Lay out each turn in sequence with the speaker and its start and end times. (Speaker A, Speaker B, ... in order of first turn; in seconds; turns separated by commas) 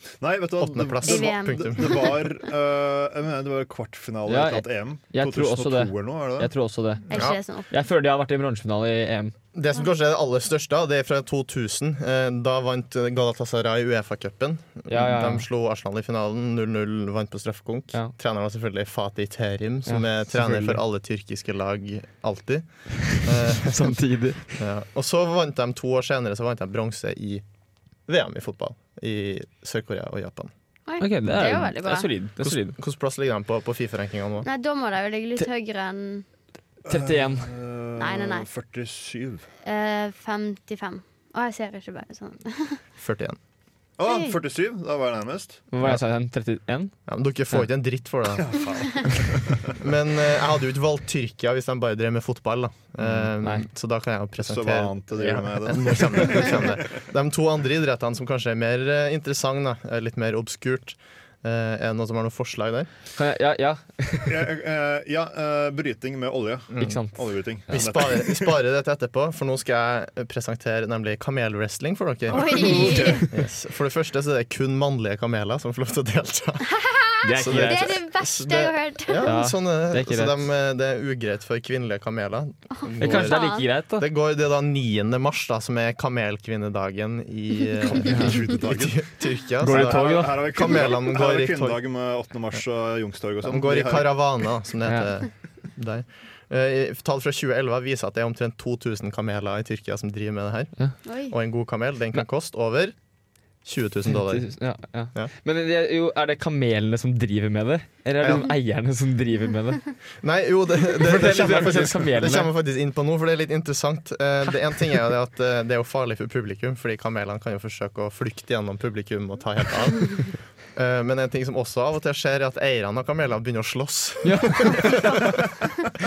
Speaker A: 0.2-6.5, Speaker B: 0.6-2.1, Speaker C: 1.0-2.2, Speaker D: 4.3-9.3, Speaker C: 7.1-7.7, Speaker B: 7.1-7.4, Speaker B: 9.5-27.4, Speaker D: 14.9-15.4, Speaker D: 19.9-20.8, Speaker D: 23.6-24.6, Speaker B: 27.9-30.5, Speaker C: 30.9-32.1, Speaker D: 31.0-32.8, Speaker B: 32.4-34.5, Speaker C: 34.4-36.2, Speaker A: 36.8-39.5, Speaker D: 36.9-37.5, Speaker C: 38.0-38.5, Speaker C: 39.6-42.8, Speaker B: 43.0-43.4, Speaker A: 44.0-45.9, Speaker C: 44.0-44.4, Speaker D: 45.7-47.0, Speaker B: 47.0-48.5, Speaker A: 48.3-49.8, Speaker B: 49.8-62.9, Speaker A: 53.0-53.3, Speaker D: 53.4-53.6, Speaker A: 54.4-56.8, Speaker D: 63.1-64.4, Speaker A: 64.3-68.5, Speaker B: 66.7-92.6, Speaker D: 66.8-68.0, Speaker C: 72.3-73.2, Speaker A: 72.3-73.2, Speaker C: 76.7-79.3, Speaker D: 77.2-78.0, Speaker D: 79.2-80.4, Speaker C: 82.8-83.6, Speaker D: 83.0-84.0, Speaker A: 88.0-94.5, Speaker D: 88.0-88.3, Speaker D: 89.6-90.4, Speaker B: 93.4-105.3, Speaker D: 94.8-95.1, Speaker C: 101.0-101.3, Speaker D: 104.1-110.0, Speaker B: 108.2-108.5, Speaker B: 110.2-124.8, Speaker D: 111.0-112.5, Speaker D: 124.2-125.2